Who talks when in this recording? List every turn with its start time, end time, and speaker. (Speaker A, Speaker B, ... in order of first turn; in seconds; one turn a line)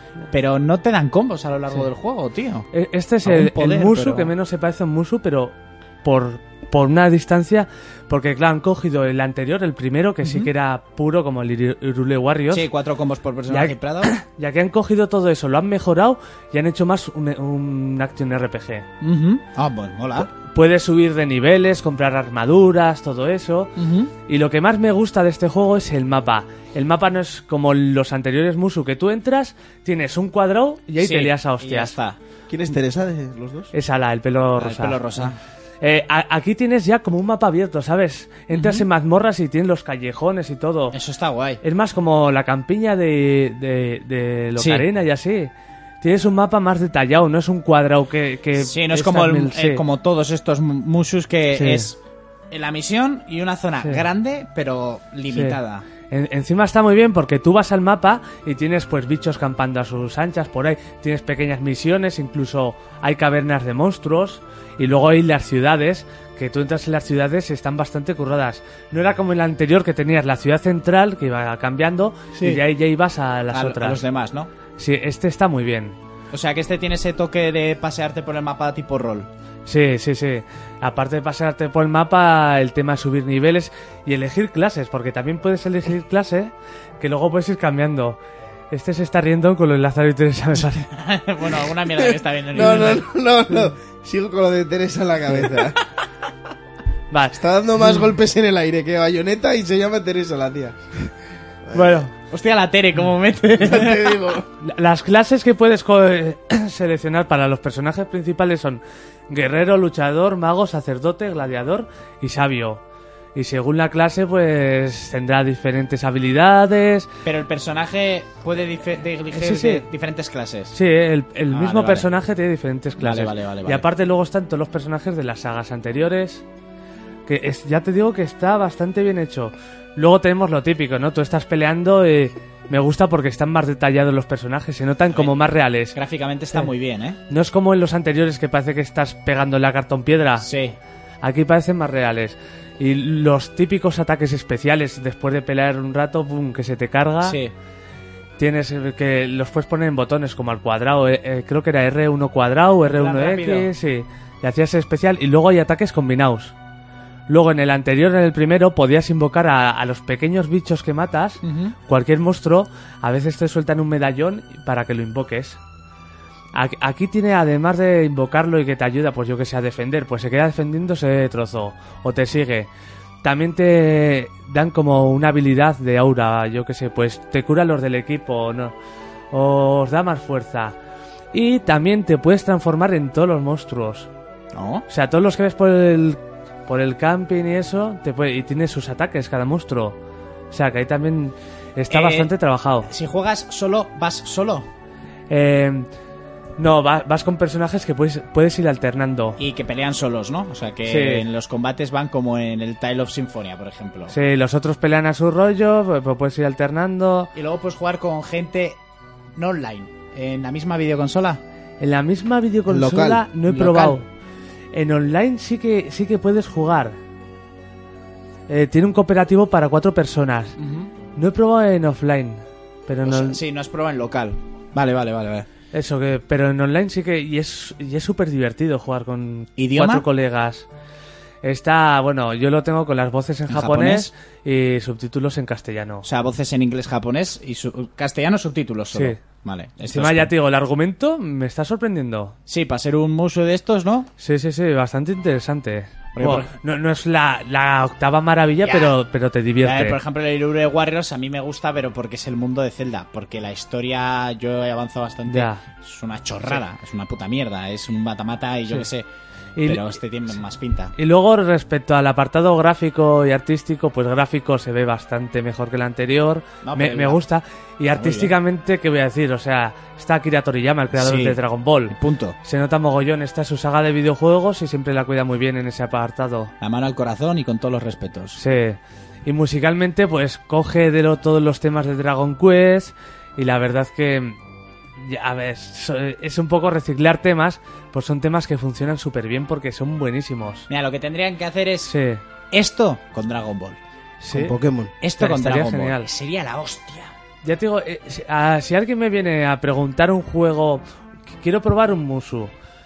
Speaker A: 0.3-2.7
Speaker B: 2.7-12.7
Speaker A: 3.2-4.3
Speaker A: 10.2-10.5
Speaker A: 12.5-14.1
Speaker B: 13.5-18.9
Speaker A: 19.0-20.3
Speaker B: 20.3-23.7
Speaker A: 23.8-24.1
Speaker B: 24.3-31.9
Speaker A: 31.0-32.2
Speaker C: 32.5-33.7
Speaker B: 33.7-35.2
Speaker A: 34.6-35.4
Speaker B: 35.8-40.9
Speaker A: 38.5-38.8
Speaker A: 40.9-41.6
Speaker B: 41.6-45.5
Speaker A: 44.6-44.8
Speaker B: 46.0-49.8
Speaker A: 48.5-52.0
Speaker B: 51.5-51.9
Speaker A: 52.5-55.8
Speaker B: 55.3-55.6
Speaker B: 56.1-74.0
Speaker A: 72.3-72.6
Speaker A: 73.5-74.5
Speaker B: 74.8-76.0
Speaker A: 76.3-79.3
Speaker B: 79.7-88.2
Speaker B: 88.7-90.9
Speaker A: 90.9-93.0
Speaker C: 92.0-95.8
Speaker B: 97.1-97.4
Speaker C: 97.3-100.8
Speaker C: 101.7-102.0
Speaker A: 101.8-104.1
Speaker C: 103.6-104.5
Speaker B: 104.6-112.8
Speaker B: 113.3-117.1
Speaker A: 117.2-120.7
Speaker B: 119.3-119.8
Speaker B: 120.7-126.4
Speaker A: 121.5-122.1
Speaker A: 123.0-123.8
Speaker B: 127.3-135.9
Speaker A: 135.9-137.2
Speaker B: 137.3-140.5
Speaker A: 140.4-140.8
Speaker B: 141.2-147.4
Speaker A: 147.2-147.5
Speaker B: 148.4-156.5
Speaker A: 152.8-153.7
Speaker B: 157.3-165.6
Speaker A: 161.4-161.7
Speaker B: 166.5-172.7
Speaker B: 173.2-178.7
Speaker B: 179.3-180.7
Speaker B: 181.3-184.1
Speaker A: 184.5-184.8
Speaker B: 184.9-189.9
Speaker B: 190.5-192.9
Speaker A: 191.9-192.3
Speaker A: 192.9-194.7
Speaker B: 195.3-195.9
Speaker B: 196.6-199.4
Speaker A: 199.4-204.1
Speaker B: 200.9-201.2
Speaker B: 204.1-207.3
Speaker A: 207.3-208.8
Speaker A: 209.4-211.4
Speaker B: 211.8-214.0
Speaker C: 212.7-213.2
Speaker A: 213.5-214.0
Speaker B: 214.7-216.9
Speaker B: 218.5-220.6
Speaker A: 220.6-220.9
Speaker B: 221.2-223.4
Speaker A: 223.1-225.5
Speaker B: 225.7-230.7
Speaker A: 229.6-230.0
Speaker B: 231.4-236.0
Speaker A: 233.5-234.1
Speaker A: 236.0-240.3
Speaker B: 239.9-242.3
Speaker A: 242.5-244.1
Speaker B: 244.2-250.0
Speaker A: 246.1-246.5
Speaker A: 248.6-248.9
Speaker A: 249.6-259.1
Speaker B: 255.3-255.6
Speaker B: 259.6-259.8
Speaker A: 259.6-260.9
Speaker B: 261.0-276.5
Speaker A: 266.6-267.2
Speaker A: 267.9-268.3
Speaker A: 270.9-272.4
Speaker A: 276.6-278.4
Speaker B: 278.4-284.4
Speaker B: 285.0-290.7
Speaker A: 290.7-291.9
Speaker B: 291.9-292.2
Speaker A: 292.5-293.8
Speaker B: 294.2-294.5
Speaker C: 294.3-294.9
Speaker A: 295.0-297.1
Speaker B: 295.2-296.1
Speaker B: 297.4-300.8
Speaker B: 301.4-302.5